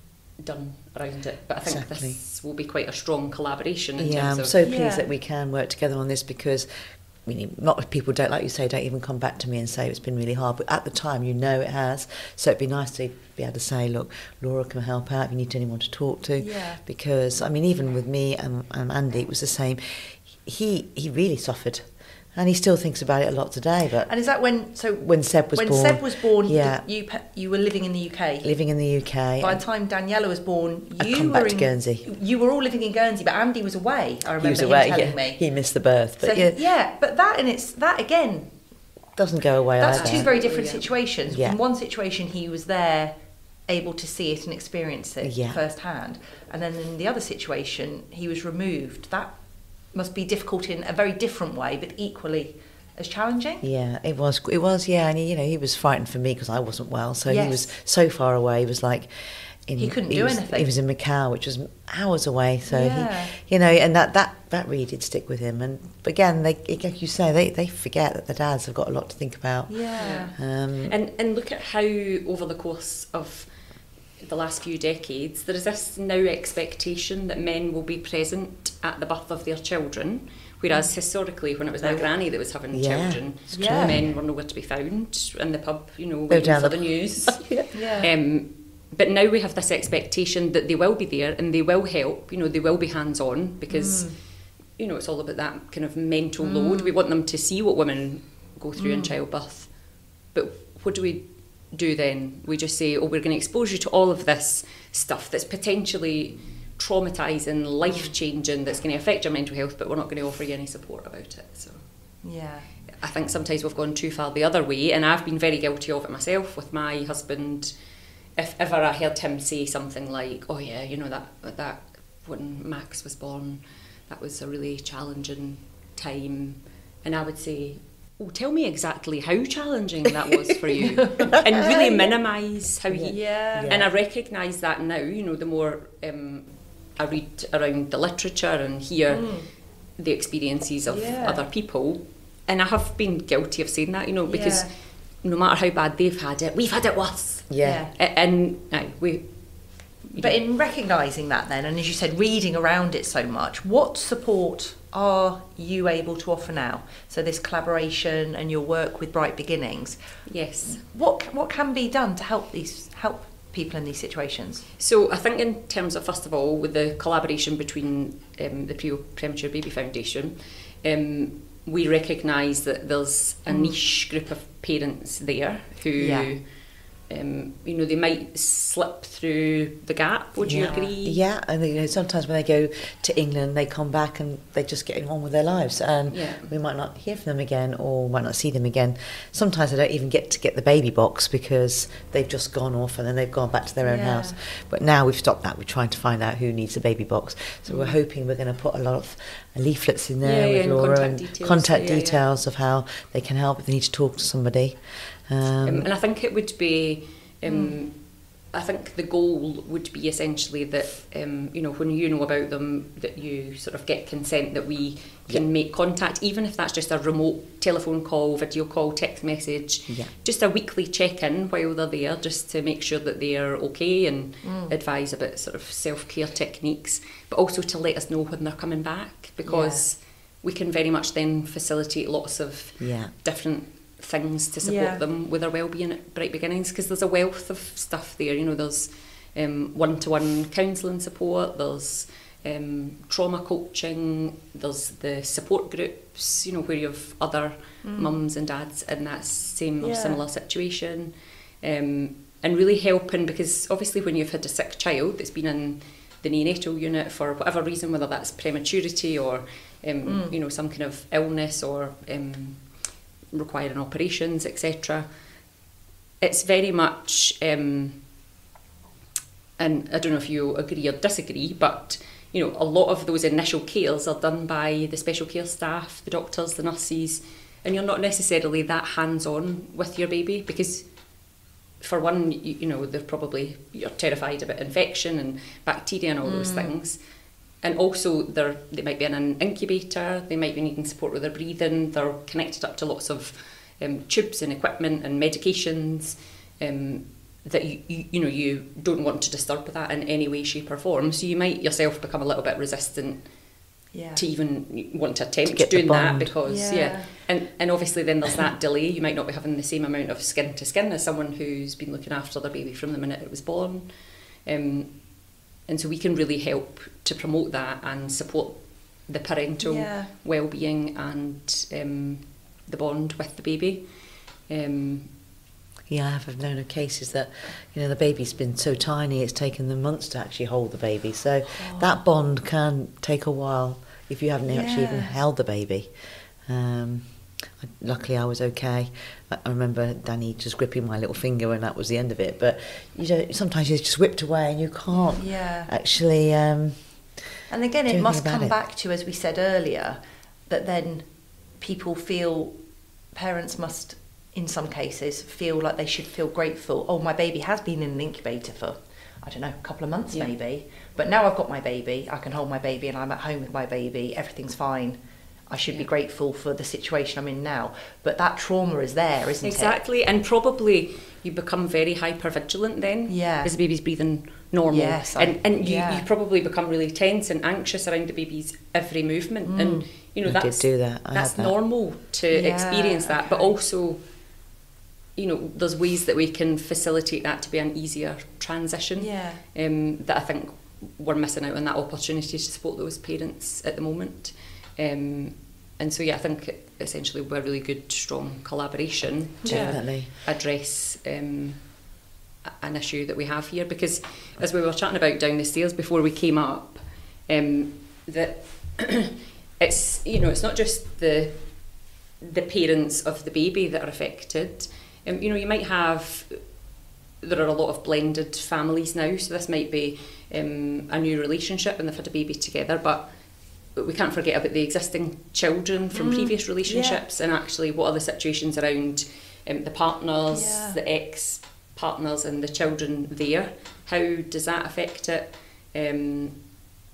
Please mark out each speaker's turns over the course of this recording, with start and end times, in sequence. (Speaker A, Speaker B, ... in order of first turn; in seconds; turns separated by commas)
Speaker A: 0.4-4.6, Speaker B: 1.6-2.2, Speaker B: 4.0-24.1, Speaker C: 4.6-5.1, Speaker C: 16.4-16.8, Speaker C: 24.1-28.5, Speaker B: 25.0-26.8, Speaker B: 28.4-29.6, Speaker C: 29.4-35.5, Speaker B: 31.0-32.0, Speaker B: 34.4-36.6, Speaker C: 36.2-38.5, Speaker B: 39.1-40.3, Speaker C: 39.8-43.1, Speaker A: 39.9-40.9, Speaker B: 41.3-41.6, Speaker C: 43.7-49.3, Speaker B: 45.2-45.6, Speaker C: 49.9-53.6, Speaker B: 53.6-71.0, Speaker C: 57.3-57.7, Speaker C: 59.8-60.7, Speaker C: 62.7-63.4, Speaker C: 69.7-70.3, Speaker A: 70.0-73.5, Speaker A: 74.2-111.8, Speaker C: 80.7-80.9, Speaker B: 81.8-84.0, Speaker C: 83.5-84.0, Speaker B: 86.3-87.7, Speaker C: 87.7-88.1, Speaker C: 93.7-94.2, Speaker C: 96.4-96.9, Speaker C: 98.8-99.2, Speaker C: 107.8-108.1, Speaker C: 112.2-112.7, Speaker A: 112.9-117.7, Speaker A: 118.3-139.4, Speaker C: 131.1-132.1, Speaker B: 132.9-133.9, Speaker C: 133.1-133.8, Speaker C: 139.1-139.5, Speaker A: 140.0-150.3, Speaker C: 140.9-141.4, Speaker C: 144.2-144.7, Speaker B: 147.5-147.9, Speaker C: 147.6-147.9, Speaker C: 150.2-160.0, Speaker A: 160.2-160.8, Speaker C: 160.6-164.7, Speaker A: 164.8-176.5, Speaker C: 173.5-173.8, Speaker C: 176.0-176.3, Speaker A: 177.0-181.2, Speaker B: 180.4-205.9, Speaker A: 186.1-186.5, Speaker C: 193.8-194.4, Speaker C: 197.7-197.9, Speaker A: 200.2-202.2, Speaker A: 205.6-265.1, Speaker C: 207.4-207.8, Speaker B: 219.9-220.1, Speaker C: 224.4-224.7, Speaker C: 229.5-229.8, Speaker B: 232.8-233.1, Speaker C: 234.6-235.0, Speaker C: 247.8-248.1, Speaker C: 249.8-250.2, Speaker C: 260.0-260.3, Speaker A: 266.2-268.0, Speaker A: 269.6-280.9, Speaker A: 281.8-287.0, Speaker C: 286.2-286.7, Speaker A: 287.6-303.3, Speaker C: 303.9-304.2, Speaker A: 304.1-315.1, Speaker B: 305.5-306.3, Speaker C: 306.4-307.1, Speaker A: 315.6-323.9, Speaker C: 319.6-320.1, Speaker A: 324.5-325.1, Speaker B: 325.9-335.9, Speaker C: 331.5-331.9, Speaker C: 334.5-335.1, Speaker B: 336.4-347.2, Speaker C: 345.1-345.7, Speaker C: 347.5-352.6, Speaker B: 347.9-348.5, Speaker C: 353.1-369.8, Speaker A: 369.4-384.1, Speaker C: 373.1-373.5, Speaker C: 374.7-376.1, Speaker C: 379.4-379.9, Speaker B: 380.2-381.5, Speaker C: 382.3-383.5, Speaker A: 385.1-401.8, Speaker C: 389.0-389.4, Speaker C: 399.4-399.8, Speaker B: 399.4-400.1, Speaker A: 402.4-416.5, Speaker A: 417.2-436.5, Speaker C: 425.9-427.0, Speaker C: 430.3-430.8